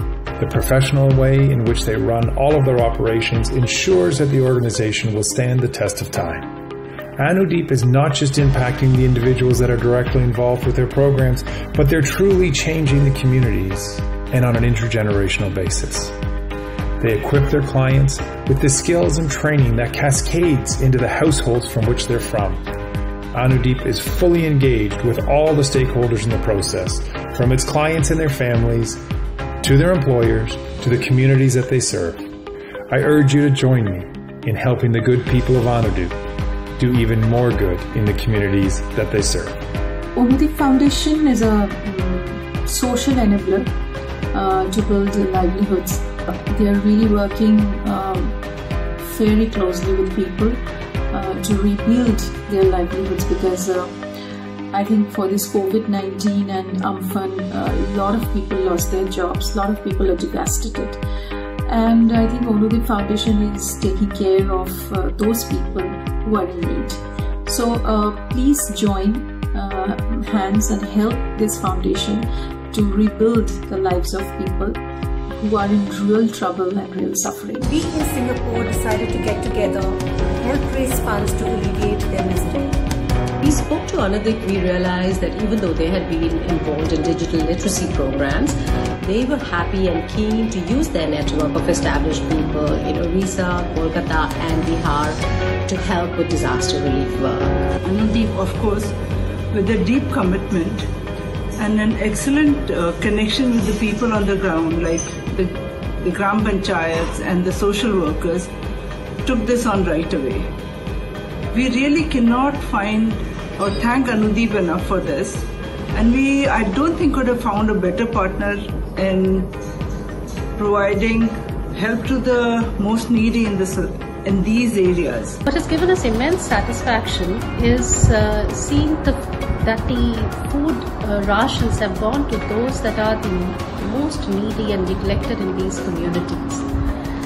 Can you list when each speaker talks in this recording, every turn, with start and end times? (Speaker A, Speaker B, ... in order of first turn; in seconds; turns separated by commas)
Speaker A: 0.4-6.5, Speaker A: 7.2-16.2, Speaker A: 17.0-22.6, Speaker A: 23.3-29.0, Speaker A: 29.6-32.3, Speaker A: 32.9-36.2, Speaker A: 36.8-39.6, Speaker B: 40.1-43.7, Speaker B: 44.3-48.4, Speaker B: 49.0-50.6, Speaker B: 51.1-53.9, Speaker B: 54.7-61.0, Speaker B: 61.7-74.8, Speaker B: 75.3-77.7, Speaker C: 77.6-82.7, Speaker D: 83.4-97.7, Speaker E: 97.8-99.0, Speaker E: 99.5-100.9, Speaker E: 101.6-108.5, Speaker E: 109.2-110.5, Speaker E: 111.5-119.5, Speaker E: 120.6-125.4, Speaker F: 125.5-136.7